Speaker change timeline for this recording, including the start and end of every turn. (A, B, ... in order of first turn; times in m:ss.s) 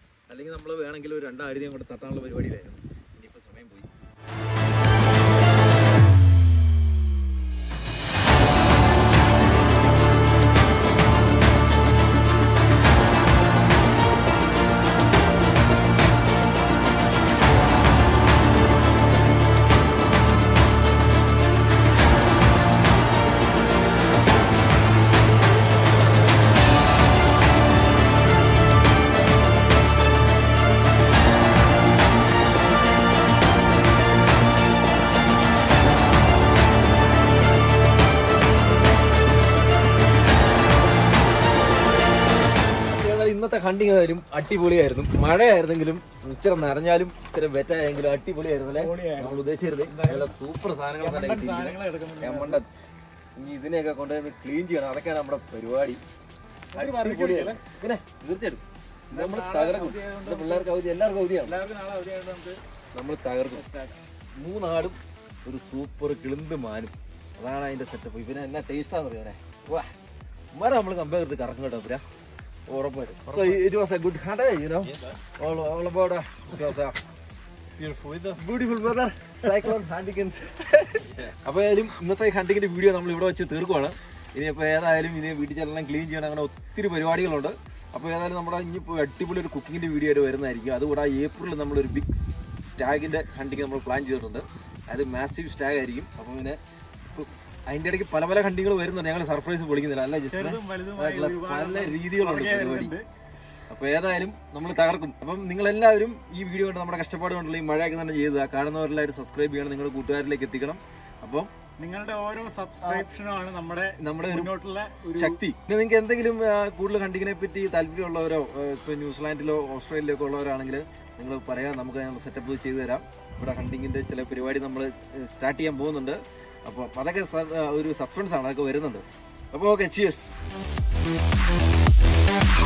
0:00.3-0:03.9 A
0:42.8-0:52.7 A
0:48.7-0:50.3 B
0:51.0-0:52.6 B
0:53.4-0:56.0 A
0:56.7-0:57.6 B
0:56.8-1:01.6 A
0:59.1-1:00.7 B
1:01.4-1:02.6 B
1:02.9-1:03.6 A
1:03.5-1:04.0 B
1:04.4-1:09.9 A
1:10.5-1:12.0 A
1:12.7-1:17.0 A
1:13.3-1:13.6 B
1:18.0-1:42.9 A
1:40.2-1:43.1 B
1:43.7-1:51.5 A
1:51.8-1:55.4 B
1:52.8-1:53.1 A
1:54.0-1:54.5 A
1:55.1-2:10.4 A